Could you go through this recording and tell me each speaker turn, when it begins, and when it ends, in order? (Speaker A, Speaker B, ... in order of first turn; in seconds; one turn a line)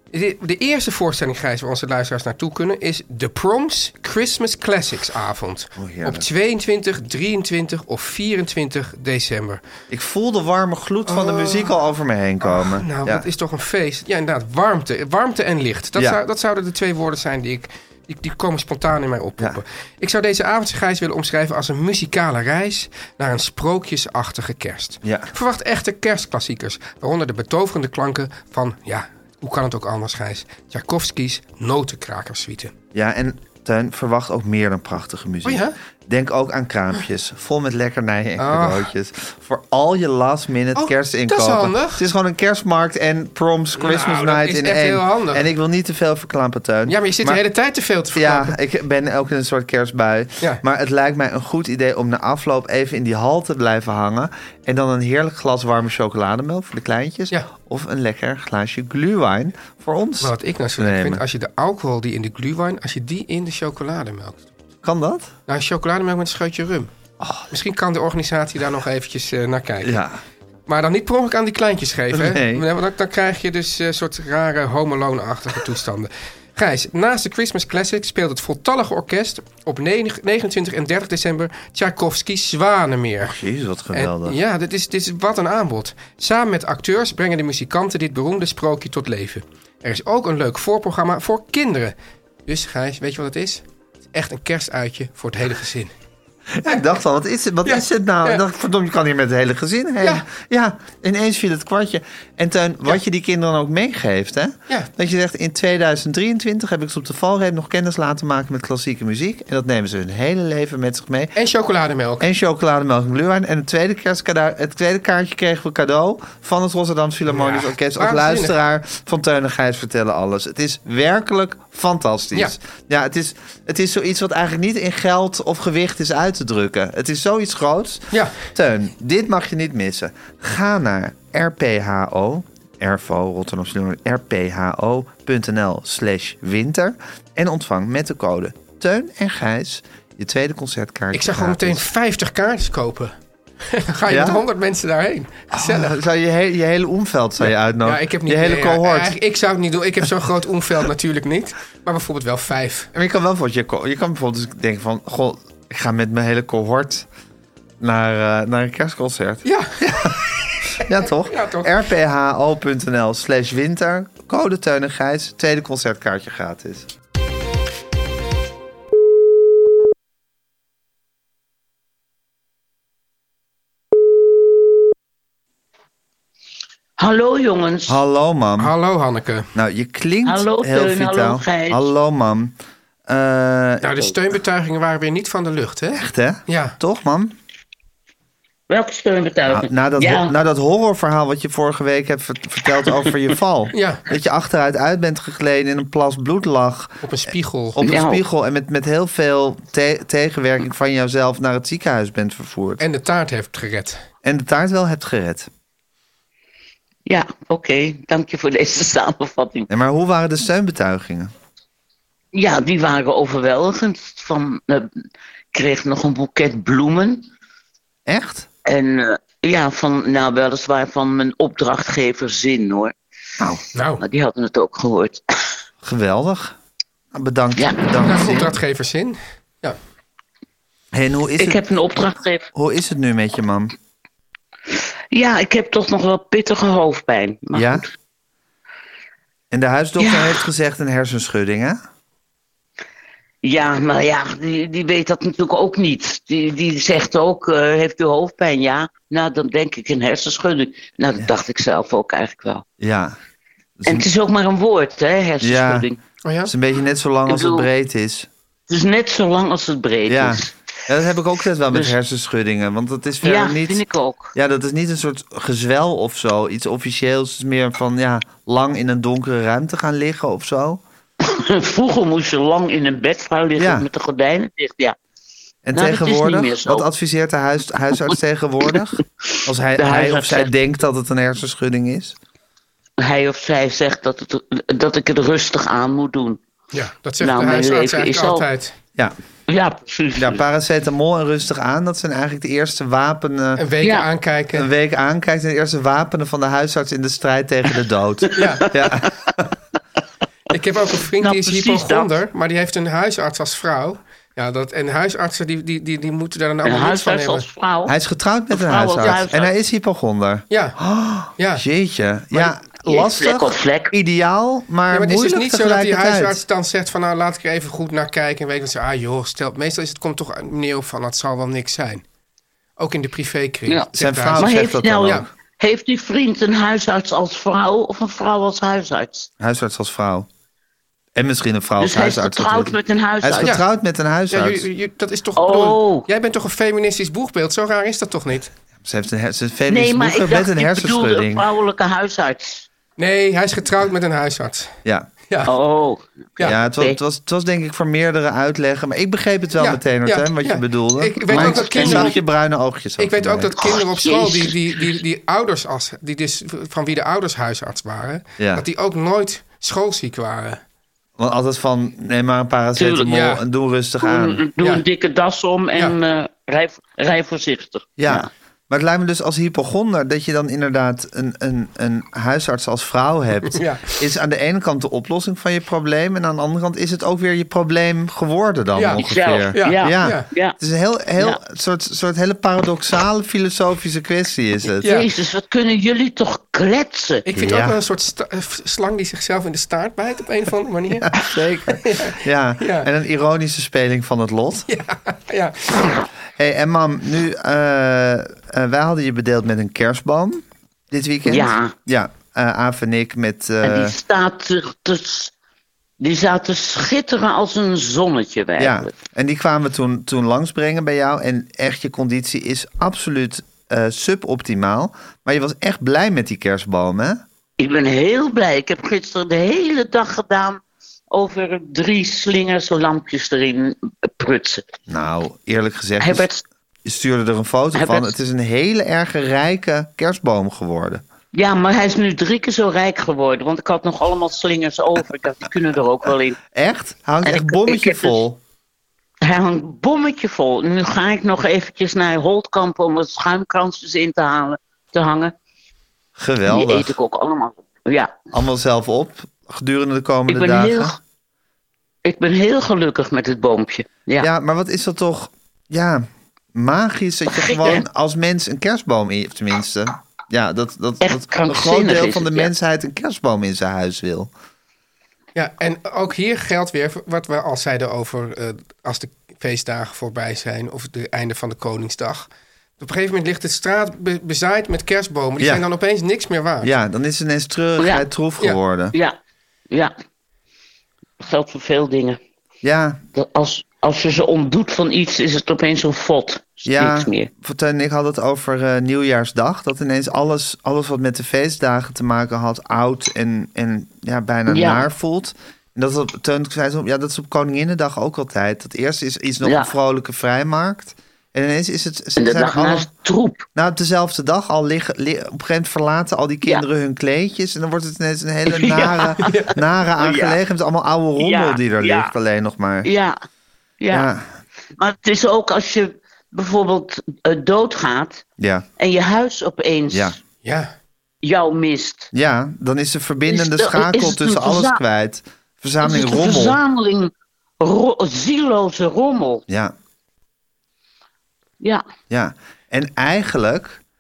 Speaker A: 0.1-9.6
Speaker B: 5.8-6.3
Speaker B: 9.9-13.3
Speaker A: 11.1-11.8
Speaker A: 12.4-32.7
Speaker B: 25.0-25.3
Speaker B: 33.0-47.4
Speaker A: 35.5-35.8
Speaker A: 38.4-38.9
Speaker A: 40.8-42.0
Speaker A: 43.8-45.5
Speaker A: 46.9-48.6
Speaker B: 48.1-61.2
Speaker A: 60.2-64.5
Speaker B: 64.8-65.3
Speaker A: 65.5-66.9
Speaker B: 67.2-67.5
Speaker A: 67.5-70.0
Speaker B: 69.8-70.2
Speaker A: 70.7-83.4
Speaker B: 72.1-72.7
Speaker B: 83.2-84.4
Speaker A: 83.9-92.0
Speaker A: 92.5-95.9
Speaker B: 96.5-111.3
Speaker A: 97.7-98.4
Speaker A: 111.4-112.3
Speaker B: 112.2-141.8
Speaker A: 117.3-118.5
Speaker A: 128.1-128.4
Speaker A: 141.1-143.1
Speaker A: 143.7-146.0
Speaker B: 144.1-144.4
Speaker B: 145.5-149.2
Speaker A: 147.8-152.9
Speaker B: 152.9-157.1
Speaker B: 157.8-160.2
Speaker A: 159.4-161.7
Speaker B: 160.8-166.9
Speaker C: 177.0-178.0
Speaker B: 177.9-178.7
Speaker A: 178.6-179.5
Speaker B: 179.6-182.6
Speaker C: 180.2-181.9
Speaker B: 183.1-184.1
Speaker A: 183.8-186.8
Speaker B: 185.9-187.3
Speaker C: 188.7-190.3
Speaker B: 189.5-197.0
Speaker A: 193.7-194.0
Speaker A: 197.0-197.8
Speaker B: 197.8-202.8
Speaker C: 197.8-198.2
Speaker A: 202.8-204.0
Speaker B: 204.2-205.5
Speaker C: 207.1-209.7
Speaker B: 209.7-211.3
Speaker C: 212.3-217.3
Speaker B: 218.1-218.5
Speaker C: 218.7-222.9
Speaker A: 223.8-224.0
Speaker C: 224.0-225.2
Speaker B: 225.8-226.6
Speaker B: 227.1-228.5
Speaker A: 228.0-229.8
Speaker B: 230.9-231.6
Speaker C: 231.4-232.5
Speaker B: 232.5-233.7
Speaker C: 235.1-237.9
Speaker B: 237.5-237.8
Speaker B: 239.5-241.8
Speaker C: 240.0-240.4
Speaker C: 243.4-252.7
Speaker B: 252.8-253.2
Speaker B: 253.8-254.1
Speaker C: 253.9-256.0
Speaker B: 255.4-255.9
Speaker A: 256.2-256.5
Speaker B: 256.5-258.3
Speaker C: 257.3-257.7
Speaker C: 258.7-260.5
Speaker B: 260.1-263.8
Speaker C: 263.2-264.3
Speaker B: 264.3-270.8
Speaker C: 271.2-275.0
Speaker B: 273.6-273.9
Speaker B: 275.6-282.2
Speaker C: 275.8-276.9
Speaker C: 279.8-280.5
Speaker C: 283.0-286.4
Speaker A: 286.7-288.7
Speaker C: 287.2-288.5
Speaker C: 289.5-290.4
Speaker B: 290.2-293.7
Speaker A: 293.6-294.7
Speaker B: 294.5-299.5
Speaker C: 298.3-298.6
Speaker A: 298.4-298.7
Speaker A: 300.5-307.5
Speaker C: 301.2-302.1
Speaker C: 306.6-307.9
Speaker B: 307.9-316.4
Speaker C: 308.5-309.5
Speaker A: 310.5-310.8
Speaker A: 311.4-311.6
Speaker C: 312.9-313.9
Speaker A: 314.9-322.0
Speaker A: 322.8-324.5
Speaker C: 323.7-329.3
Speaker B: 323.9-325.3
Speaker B: 329.4-330.3
Speaker B: 331.1-334.7
Speaker C: 331.8-333.6
Speaker A: 334.3-338.5
Speaker C: 335.4-336.1
Speaker B: 338.8-341.4
Speaker C: 339.7-342.7
Speaker A: 343.0-344.7
Speaker C: 345.5-347.0
Speaker B: 346.4-353.5
Speaker A: 349.6-352.2
Speaker C: 351.3-352.1
Speaker A: 353.0-360.6
Speaker C: 353.6-354.9
Speaker B: 358.4-358.7
Speaker B: 361.2-364.4
Speaker C: 362.8-363.1
Speaker A: 363.1-363.4
Speaker C: 364.0-368.3
Speaker B: 368.0-384.9
Speaker A: 373.5-374.0
Speaker A: 378.8-380.3
Speaker C: 379.0-380.6
Speaker C: 384.8-387.3
Speaker A: 387.3-392.9
Speaker B: 387.4-387.8
Speaker B: 391.1-394.7
Speaker A: 394.7-395.9
Speaker B: 396.4-404.0
Speaker C: 401.3-401.7
Speaker C: 403.6-405.3
Speaker C: 406.0-408.9
Speaker B: 408.6-417.2
Speaker C: 417.6-424.7
Speaker B: 424.9-426.3
Speaker C: 426.0-426.4
Speaker B: 426.9-431.0
Speaker C: 427.8-428.1
Speaker C: 431.3-436.4
Speaker B: 436.5-438.4
Speaker C: 437.2-438.2
Speaker C: 439.2-445.4
Speaker B: 446.2-447.0
Speaker C: 446.5-448.3
Speaker B: 448.3-451.0
Speaker C: 450.3-451.0
Speaker C: 452.1-454.3
Speaker B: 454.2-464.3
Speaker C: 457.3-457.8
Speaker C: 461.0-462.5
Speaker A: 465.4-472.3
Speaker A: 472.8-476.7
Speaker B: 475.4-475.6
Speaker B: 476.6-478.9
Speaker C: 477.8-478.1
Speaker C: 481.2-482.2
Speaker B: 482.6-483.0
Speaker C: 483.1-487.3
Speaker B: 486.7-502.9
Speaker C: 494.5-494.9
Speaker C: 499.4-499.7
Speaker C: 502.2-503.4
Speaker B: 503.6-512.9
Speaker C: 508.5-510.4
Speaker C: 511.2-512.1
Speaker C: 512.8-513.1
Speaker C: 513.8-514.1
Speaker B: 513.9-514.3
Speaker C: 514.8-518.2
Speaker B: 518.4-518.6
Speaker C: 518.8-520.2
Speaker B: 519.9-520.2
Speaker A: 520.4-520.7
Speaker C: 521.2-522.1
Speaker B: 522.1-526.6
Speaker C: 523.3-524.8
Speaker C: 525.8-529.4
Speaker B: 529.5-529.7
Speaker B: 532.1-533.8